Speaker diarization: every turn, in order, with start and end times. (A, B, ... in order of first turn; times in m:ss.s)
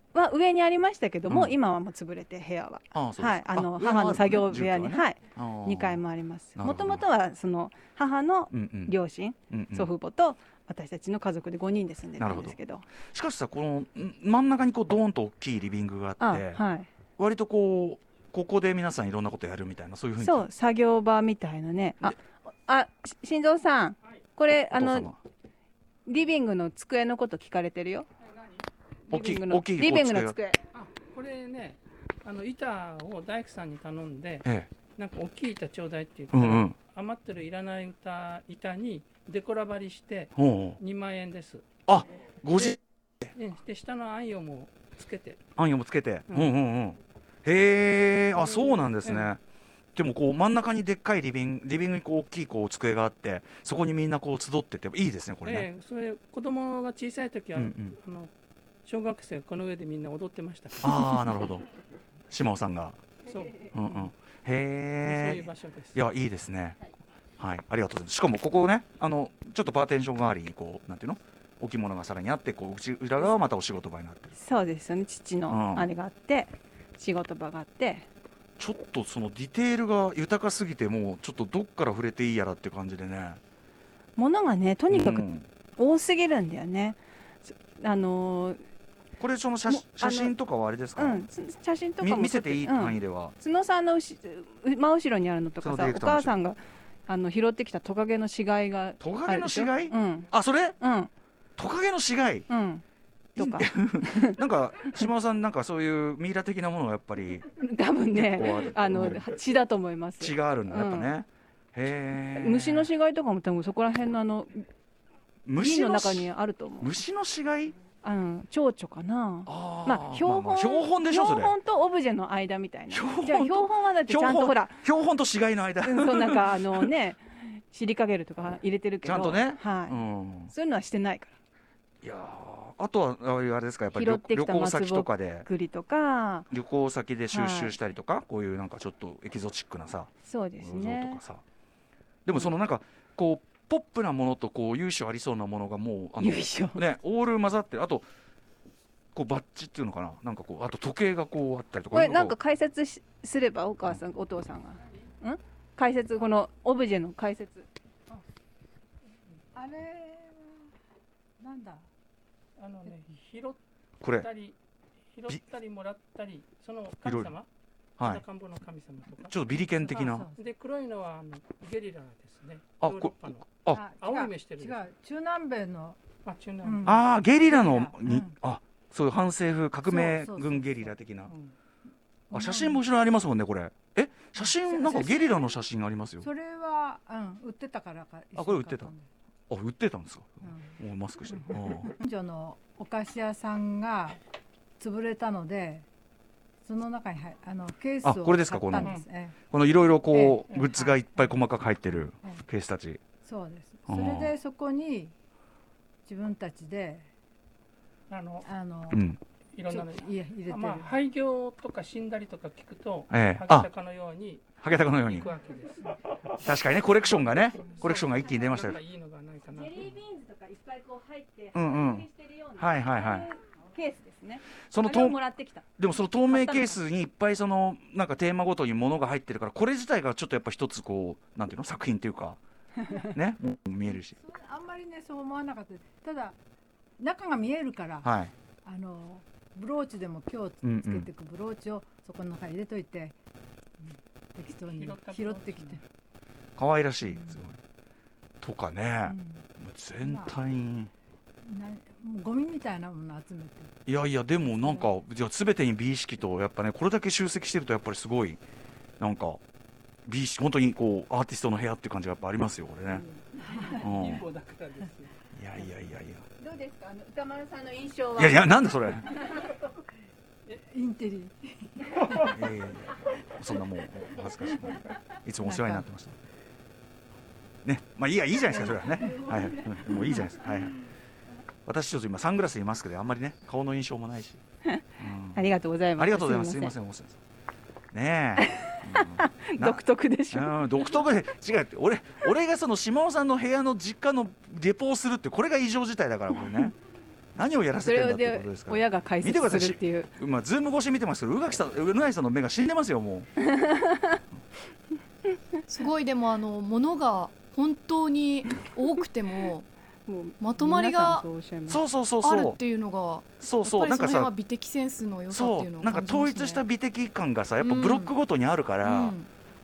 0:00.1-0:12.8 A
0:01.3-0:01.6 B
0:02.9-0:06.0 B
0:06.6-0:07.0 B
0:08.5-0:08.9 B
0:09.5-0:09.9 B
0:12.2-0:16.6 B
0:16.2-0:16.9 A
0:17.2-0:20.5 B
0:20.2-0:25.1 A
0:24.7-0:25.2 B
0:26.0-0:28.1 A
0:29.1-0:30.4 B
0:29.1-0:30.6 A
0:30.7-0:41.6 C
0:34.4-0:34.7 B
0:36.3-0:36.8 B
0:40.4-0:40.8 B
0:41.9-0:43.3 B
0:43.3-0:45.4 C
0:45.6-0:49.4 B
0:46.3-0:46.5 C
0:48.4-0:49.3 C
0:49.9-0:55.6 B
0:55.4-0:58.3 C
0:57.5-0:58.0 B
0:58.8-1:01.2 C
1:00.8-1:01.6 B
1:02.3-1:03.0 B
1:03.2-1:04.1 C
1:03.7-1:06.8 B
1:05.0-1:06.0 C
1:07.4-1:14.4 B
1:14.4-1:18.1 A
1:15.5-1:15.9 B
1:18.6-1:23.4 B
1:24.2-1:25.2 A
1:24.9-1:25.5 B
1:25.8-1:28.6 A
1:29.2-1:31.3 B
1:29.7-1:30.3 A
1:31.0-1:41.1 A
1:32.0-1:33.3 B
1:35.6-1:36.3 B
1:39.0-1:40.8 B
1:41.6-1:42.5 B
1:42.5-1:42.8 A
1:43.4-1:44.4 A
1:43.4-1:47.5 B
1:47.6-1:51.1 A
1:48.1-1:49.2 B
1:50.2-1:52.9 B
1:52.3-1:54.7 A
1:55.4-1:57.8 B
1:55.6-1:56.9 A
1:58.0-2:04.8 A
1:59.4-2:01.6 B
2:02.9-2:06.9 B
2:05.8-2:11.3 A
2:09.0-2:10.5 B
2:12.0-2:15.5 B
2:13.9-2:16.5 A
2:16.5-2:21.4 B
2:17.3-2:17.8 A
2:20.2-2:21.2 A
2:22.2-2:28.1 B
2:26.2-2:26.8 A
2:29.1-2:32.4 B
2:31.9-2:37.7 A
2:39.5-2:40.6 D
2:41.4-2:41.9 D
2:42.6-2:44.6 C
2:44.0-2:44.3 B
2:45.1-2:47.5 C
2:47.0-2:47.3 B
2:48.0-2:48.2 B
2:48.0-2:49.4 C
2:49.2-2:50.3 B
2:49.6-2:50.4 D
2:50.3-2:54.8 C
2:52.8-2:53.8 B
2:53.7-2:56.0 D
2:56.2-2:57.0 C
2:56.6-2:58.4 D
2:56.8-3:01.3 B
2:59.8-3:00.9 D
3:01.3-3:01.5 C
3:02.3-3:02.8 D
3:02.3-3:06.3 B
3:04.4-3:05.6 D
3:06.2-3:09.1 D
3:08.3-3:08.9 B
3:09.5-3:11.9 B
3:10.4-3:10.8 D
3:11.3-3:14.2 D
3:14.8-3:15.8 D
3:16.6-3:19.4 D
3:18.0-3:18.9 B
3:18.8-3:19.0 C
3:19.5-3:23.0 B
3:20.1-3:21.4 D
3:23.2-3:25.1 D
3:23.9-3:24.3 B
3:26.0-3:27.1 D
3:28.1-3:28.5 C
3:28.4-3:29.1 D
3:28.9-3:29.2 B
3:29.5-3:36.5 C
3:29.7-3:31.0 D
3:33.1-3:33.7 B
3:34.6-3:35.3 B
3:36.4-3:38.8 B
3:37.1-3:39.9 C
3:39.5-3:45.6 A
3:41.5-3:43.3 B
3:44.7-3:45.2 B
3:45.8-3:52.4 B
3:46.3-3:46.8 A
3:53.0-3:54.2 B
3:53.9-3:56.4 D
3:57.0-3:58.1 D
3:58.0-3:58.3 B
3:58.6-4:03.1 D
4:00.6-4:01.1 B
4:03.8-4:05.8 D
4:04.7-4:05.8 C
4:06.6-4:07.6 B
4:07.0-4:07.4 D
4:08.4-4:10.9 B
4:09.0-4:09.4 D
4:10.0-4:10.3 D
4:11.4-4:13.7 D
4:13.9-4:18.4 B
4:19.0-4:19.4 B
4:20.0-4:23.0 B
4:23.0-4:25.1 C
4:23.4-4:23.8 D
4:23.8-4:24.3 B
4:25.3-4:26.2 B
4:26.4-4:28.6 A
4:28.2-4:29.2 B
4:29.1-4:29.6 D
4:30.5-4:32.4 D
4:32.2-4:36.2 B
4:35.4-4:35.8 D
4:37.6-4:40.8 B
4:39.1-4:39.8 D
4:41.6-4:44.4 B
4:45.0-4:45.4 B
4:45.3-4:46.7 A
4:46.0-4:47.2 B
4:47.9-4:56.7 B
4:48.4-4:50.6 A
4:57.3-5:03.3 B
4:57.8-5:00.1 A
5:03.6-5:04.2 A
5:05.7-5:09.7 E
5:10.0-5:11.8 A
5:10.4-5:11.2 E
5:11.7-5:12.6 B
5:12.2-5:16.6 E
5:13.4-5:14.3 B
5:15.3-5:19.1 B
5:17.6-5:18.1 E
5:18.8-5:19.3 E